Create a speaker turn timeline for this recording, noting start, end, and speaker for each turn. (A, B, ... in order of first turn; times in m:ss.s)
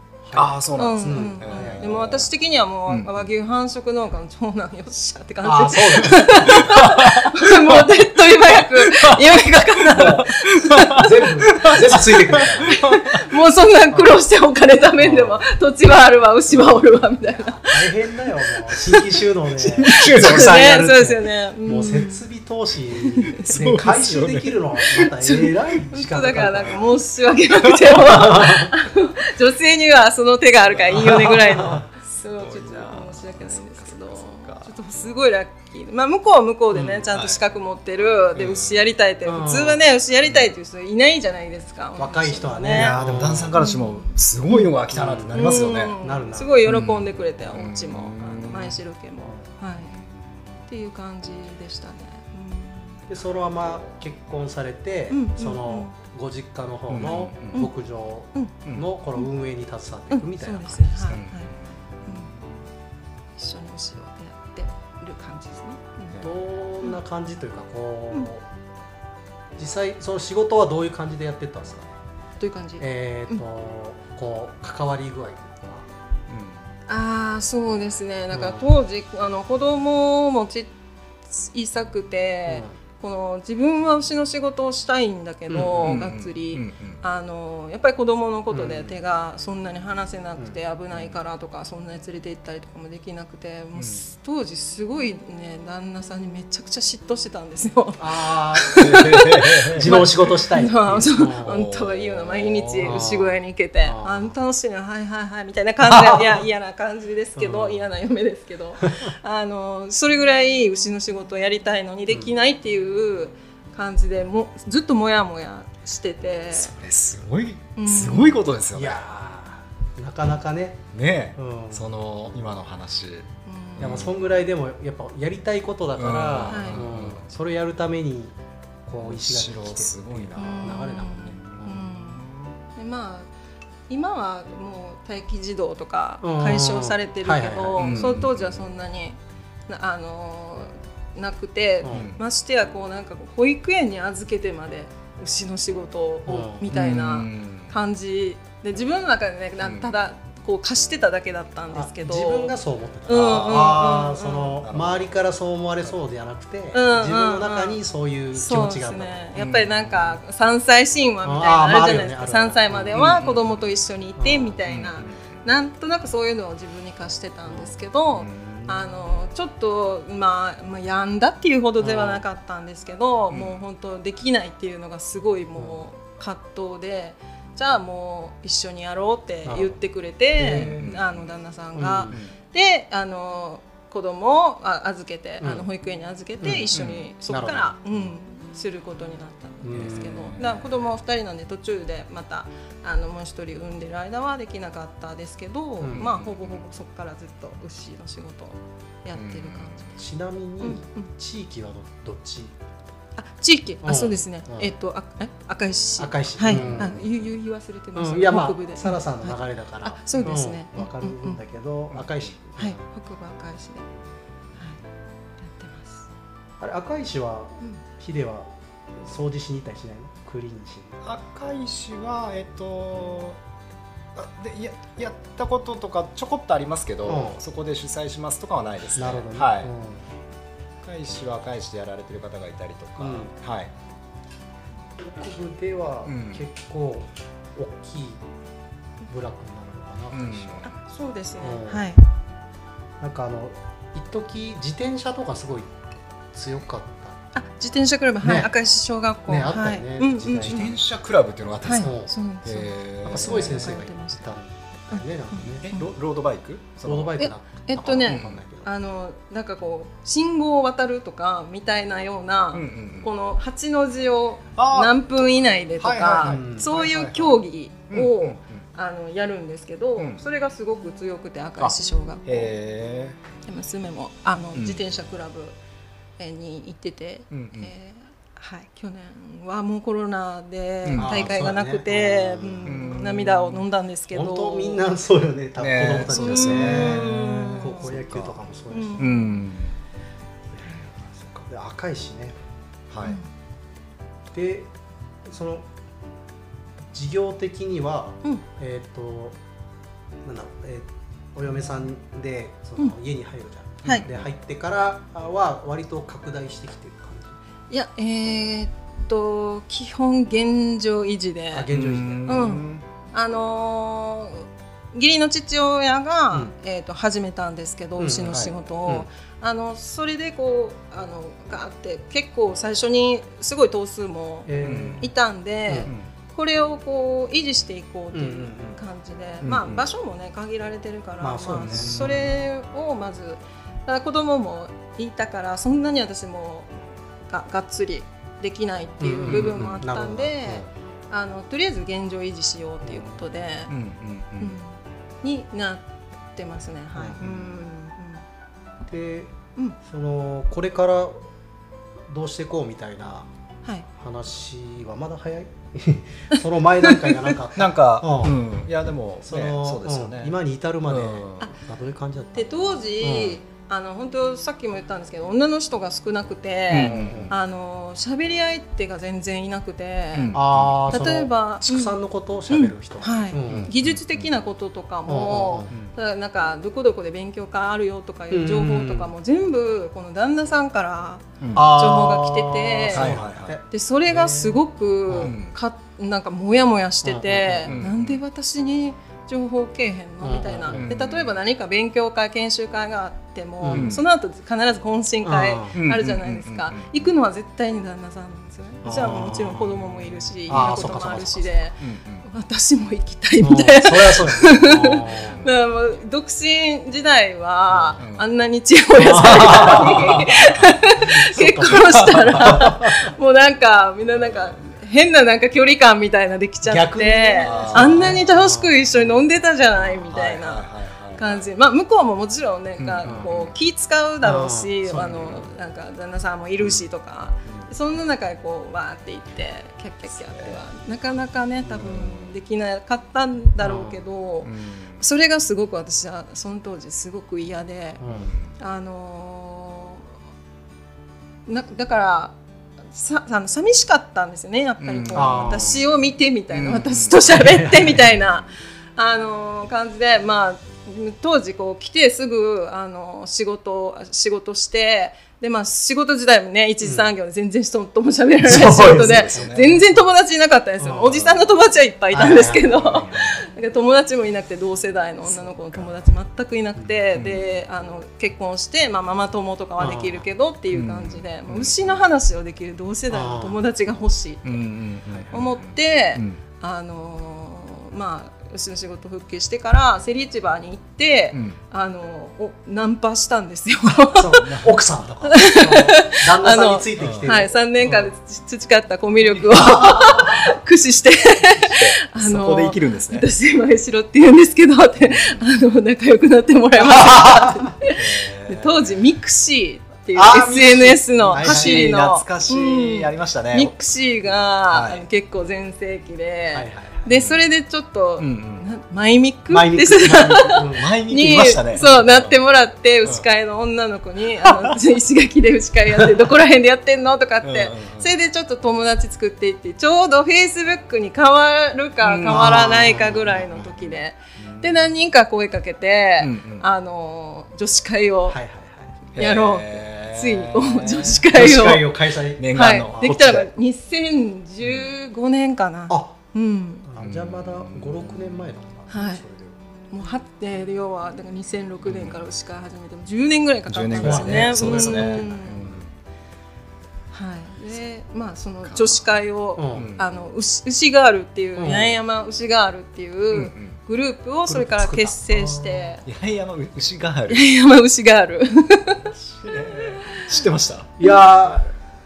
0:00.2-0:01.9 A
0:00.3-0:02.3 B
0:00.8-0:11.7 C
0:02.9-0:03.3 B
0:05.4-0:06.8 A
0:06.0-0:09.2 B
0:09.9-0:13.2 B
0:11.0-0:12.8 A
0:12.7-0:17.9 C
0:15.0-0:15.4 A
0:17.6-0:26.8 A
0:18.5-0:19.0 C
0:19.6-0:22.2 C
0:19.8-0:20.7 B
0:23.0-0:23.5 C
0:23.5-0:25.1 B
0:25.1-0:43.0 C
0:27.7-0:28.5 B
0:28.1-0:28.7 A
0:30.6-0:34.7 B
0:31.0-0:31.8 A
0:36.7-0:37.1 A
0:37.1-0:37.4 B
0:38.3-0:38.8 B
0:39.2-0:39.8 A
0:40.2-0:40.5 B
0:42.0-0:43.6 A
0:42.7-0:46.0 B
0:43.5-0:44.7 C
0:44.9-0:46.6 A
0:45.3-0:50.0 C
0:46.6-0:48.8 B
0:49.9-0:50.6 B
0:50.7-0:53.0 C
0:53.1-1:01.2 A
0:53.6-0:54.0 B
0:55.1-0:56.0 C
0:56.9-0:57.6 B
1:00.1-1:01.5 C
1:01.1-1:02.6 B
1:02.0-1:02.3 C
1:03.4-1:06.2 C
1:06.1-1:06.4 B
1:06.2-1:08.4 A
1:09.6-1:11.9 A
1:12.4-1:13.4 C
1:12.8-1:15.9 A
1:16.3-1:16.6 B
1:16.9-1:20.7 C
1:18.3-1:18.7 A
1:21.3-1:39.2 C
1:22.5-1:22.8 A
1:25.5-1:25.9 A
1:25.8-1:27.0 B
1:28.5-1:29.0 A
1:33.8-1:34.0 B
1:38.0-1:41.6 A
1:38.8-1:40.0 B
1:39.8-1:56.7 C
1:41.4-1:43.2 B
1:42.8-1:44.3 A
1:45.8-1:46.4 A
1:47.4-1:47.8 A
1:56.5-1:59.0 B
1:57.8-1:58.5 C
1:58.7-2:00.8 A
2:00.9-2:04.1 B
2:01.4-2:01.9 A
2:03.4-2:04.0 C
2:03.8-2:08.3 A
2:05.9-2:07.3 B
2:06.5-2:06.8 C
2:08.8-2:11.8 A
2:09.0-2:12.6 B
2:10.4-2:13.3 C
2:13.9-2:32.6 C
2:16.2-2:18.0 A
2:17.8-2:18.6 B
2:21.8-2:22.1 A
2:21.9-2:22.2 B
2:26.2-2:26.7 A
2:26.7-2:27.7 B
2:29.6-2:29.9 B
2:31.7-2:39.2 A
2:33.1-2:34.6 C
2:34.6-2:35.1 B
2:36.7-2:37.8 C
2:38.3-3:20.0 C
2:39.4-2:40.2 B
2:41.2-2:43.0 A
2:42.9-2:43.5 B
2:44.2-2:44.6 A
2:44.6-2:45.4 B
2:47.5-2:47.7 A
2:48.1-2:48.8 B
2:51.8-2:52.2 A
2:53.3-2:53.6 B
2:55.6-2:55.8 A
2:59.4-2:59.8 A
3:00.4-3:00.9 A
3:00.6-3:01.3 B
3:01.8-3:02.2 A
3:05.4-3:05.6 A
3:06.4-3:07.7 A
3:06.7-3:07.0 B
3:09.6-3:10.4 A
3:09.7-3:10.7 B
3:15.8-3:16.0 A
3:15.9-3:16.6 B
3:19.2-3:19.9 B
3:20.0-3:22.5 A
3:20.6-3:21.1 C
3:23.2-3:31.4 C
3:23.8-3:24.7 A
3:26.0-3:27.0 A
3:26.5-3:27.0 B
3:27.9-3:32.8 A
3:31.9-3:32.4 B
3:32.6-3:33.9 C
3:35.4-3:36.1 C
3:36.6-3:41.0 A
3:41.0-3:43.4 B
3:44.1-3:49.7 B
3:47.0-3:47.4 A
3:49.0-3:50.0 A
3:50.8-3:53.7 B
3:53.0-3:53.3 A
3:55.1-3:58.2 A
3:56.0-3:56.4 B
3:59.1-4:00.7 A
4:00.1-4:00.7 B
4:00.6-4:02.0 C
4:01.4-4:01.9 A
4:03.0-4:05.7 A
4:06.3-4:07.2 A
4:07.3-4:10.7 C
4:08.2-4:08.5 A
4:09.3-4:10.8 A
4:10.4-4:13.7 B
4:11.6-4:14.2 C
4:11.8-4:12.1 A
4:13.0-4:16.0 A
4:14.9-4:15.9 C
4:15.6-4:17.2 B
4:16.8-4:18.7 A
4:17.2-4:32.5 C
4:18.1-4:18.4 B
4:22.5-4:23.1 B
4:24.6-4:27.4 B
4:26.2-4:26.7 A
4:27.9-4:28.6 B
4:31.6-4:33.2 B
4:33.4-4:35.6 C
4:34.5-4:34.8 B
4:36.2-4:44.8 C
4:37.3-4:37.7 B
4:40.8-4:41.4 B
4:41.0-4:42.9 A
4:42.6-4:43.6 B
4:44.1-4:49.1 A
4:45.6-4:48.3 B
4:46.1-4:47.9 C
4:48.7-4:49.4 C
4:49.0-4:49.7 B
4:50.5-4:52.4 A
4:52.9-4:53.2 B
4:54.3-4:54.7 A
4:55.2-4:55.6 A
4:56.9-4:59.4 A
5:00.2-5:07.4 A
5:03.8-5:04.3 B
5:07.7-5:11.7 C
5:11.5-5:12.4 A
5:11.7-5:12.8 B
5:12.2-5:36.7 C
5:18.0-5:19.1 A
5:18.3-5:18.5 B
5:24.4-5:25.1 A
5:24.6-5:25.1 B
5:28.1-5:28.8 A
5:29.4-5:29.8 B
5:31.2-5:32.2 A
5:31.6-5:32.2 B
5:37.3-5:43.7 C
5:39.0-5:40.7 A
5:39.2-5:39.6 B
5:42.8-5:43.2 A
5:43.7-5:44.6 B
5:44.4-5:48.2 C
5:47.2-5:47.6 B
5:48.9-5:51.2 A
5:52.1-5:53.3 A
5:54.0-5:58.4 A
5:56.3-5:57.3 C
5:57.6-6:00.3 B
5:59.2-6:02.5 A
6:00.9-6:01.5 B
6:02.3-6:10.4 C
6:03.0-6:03.4 A
6:06.7-6:07.3 B
6:06.8-6:07.3 A
6:10.1-6:11.0 B
6:10.3-6:13.7 A
6:10.9-6:11.9 C
6:12.5-6:23.2 C
6:13.5-6:14.3 B
6:15.1-6:15.7 A
6:18.3-6:19.1 A
6:21.4-6:21.7 B
6:21.5-6:25.3 A
6:22.9-6:23.6 B
6:23.7-7:00.6 C
6:25.2-6:25.5 B
6:27.0-6:27.7 A
6:27.7-6:28.2 B
6:30.2-6:30.9 A
6:30.7-6:31.4 B
6:33.6-6:34.0 A
6:33.7-6:34.0 B
6:35.2-6:35.7 A
6:35.7-6:37.1 B
6:38.8-6:39.7 A
6:39.6-6:40.8 B
6:40.5-6:41.6 A
6:41.8-6:42.2 B
6:43.4-6:45.4 A
6:45.1-6:45.5 B
6:47.7-6:48.0 A
6:48.0-6:48.2 B
6:49.0-6:50.2 A
6:49.4-6:50.6 B
6:51.2-6:53.1 A
6:54.2-6:54.5 B
6:56.6-6:58.7 A
6:57.4-6:58.3 B
6:59.8-7:01.5 B
7:01.2-7:18.0 C
7:02.8-7:03.5 B
7:04.2-7:05.3 A
7:10.1-7:10.6 B
7:11.8-7:12.3 B
7:13.6-7:14.0 A
7:14.4-7:15.0 B
7:18.0-7:18.3 A
7:18.0-7:18.5 B
7:18.6-7:20.1 C
7:21.4-7:22.4 C
7:22.9-7:54.6 C
7:24.8-7:25.9 B
7:25.1-7:25.8 A
7:26.5-7:28.5 B
7:27.3-7:28.0 A
7:36.8-7:37.1 A
7:38.4-7:39.8 B
7:38.5-7:39.6 A
7:40.8-7:41.2 A
7:41.1-7:41.4 B
7:42.1-7:43.1 A
7:42.2-7:43.4 B
7:47.1-7:47.4 B
7:49.8-7:50.2 A
7:50.7-7:52.0 B
7:53.1-7:53.6 A
7:54.4-7:56.4 B
7:55.3-8:04.5 C
8:01.3-8:01.6 B
8:04.1-8:08.1 A
8:04.4-8:04.8 B
8:05.2-8:48.4 C
8:07.0-8:07.3 B
8:09.6-8:10.4 B
8:11.6-8:13.3 B
8:15.0-8:15.4 B
8:16.9-8:17.7 A
8:17.9-8:19.0 B
8:20.2-8:23.7 B
8:20.2-8:20.6 A
8:21.3-8:21.9 A
8:24.4-8:25.0 B
8:26.5-8:27.0 A
8:27.1-8:27.4 B
8:28.2-8:28.6 B
8:29.5-8:30.9 A
8:30.7-8:32.4 B
8:37.4-8:38.1 B
8:42.0-8:42.8 B
8:42.2-8:43.7 A
8:44.4-8:44.9 B
8:46.2-8:46.6 B
8:48.3-8:49.0 A
8:49.1-8:51.8 B
8:49.1-8:51.8 C
8:51.3-8:53.1 A
8:52.4-8:53.5 B
8:52.5-8:56.8 C
8:54.6-8:54.9 B
8:55.9-8:56.1 A
8:56.8-8:59.5 A
8:57.0-8:58.5 B
8:58.9-8:59.2 C
8:59.8-9:05.7 C
9:01.8-9:02.3 B
9:03.7-9:05.9 B
9:04.0-9:05.8 A
9:07.1-9:16.0 C
9:08.6-9:09.0 B
9:09.6-9:09.9 A
9:09.7-9:10.1 B
9:11.6-9:12.0 A
9:13.3-9:13.8 B
9:14.5-9:16.0 A
9:16.0-9:17.4 B
9:17.3-9:19.1 C
9:19.0-9:21.0 B
9:21.0-9:21.7 A